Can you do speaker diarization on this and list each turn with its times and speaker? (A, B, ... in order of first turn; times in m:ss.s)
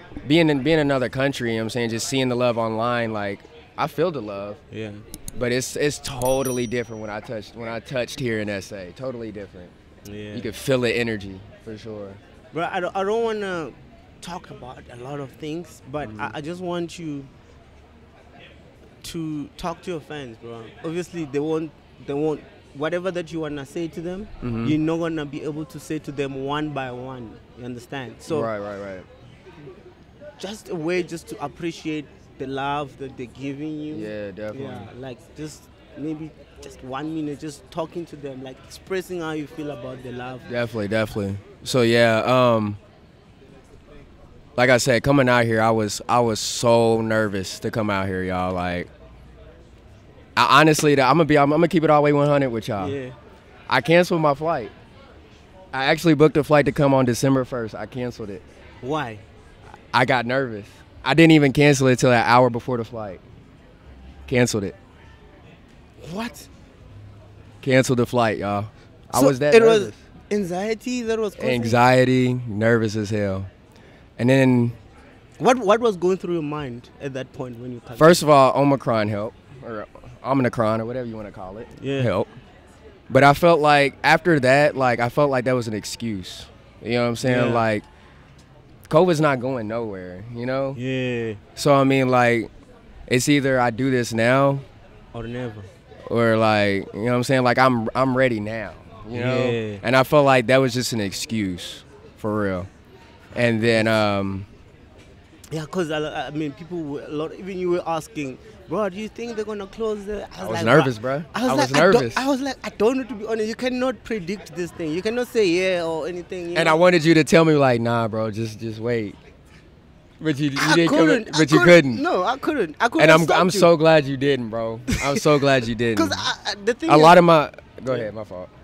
0:00.2-0:04.6 A
0:04.7-0:05.0 B
0:05.3-0:09.7 A
0:10.0-0:10.5 B
0:10.3-0:12.2 A
0:12.5-0:17.3 B
0:16.0-0:16.3 A
0:19.0-0:28.5 B
0:24.4-0:24.8 A
0:28.3-0:29.1 A
0:30.4-0:40.5 B
0:33.9-0:34.9 A
0:40.5-0:42.8 A
0:44.6-0:48.9 A
0:50.4-0:53.0 A
0:52.8-0:53.1 B
0:53.7-0:54.7 A
0:55.7-0:58.4 A
0:58.8-0:59.2 B
0:59.9-1:03.2 A
1:04.3-1:04.8 A
1:06.0-1:06.5 B
1:07.6-1:10.0 A
1:09.1-1:11.8 B
1:11.4-1:13.5 A
1:14.2-1:14.8 A
1:15.4-1:18.2 B
1:18.0-1:22.3 A
1:21.8-1:22.1 B
1:23.1-1:27.8 A
1:27.2-1:27.7 B
1:28.9-1:30.8 A
1:30.7-1:31.4 B
1:31.6-1:32.5 A
1:33.1-1:34.6 A
1:35.1-1:35.7 B
1:36.1-1:42.7 A
1:39.1-1:39.8 B
1:43.3-1:44.5 A
1:43.3-1:43.9 B
1:45.5-1:56.8 B
1:50.4-1:52.3 A
1:56.5-1:59.2 A
2:00.2-2:02.0 A
2:00.5-2:03.7 B
2:03.0-2:06.2 A
2:04.9-2:05.3 B
2:05.9-2:07.2 B
2:06.9-2:08.5 A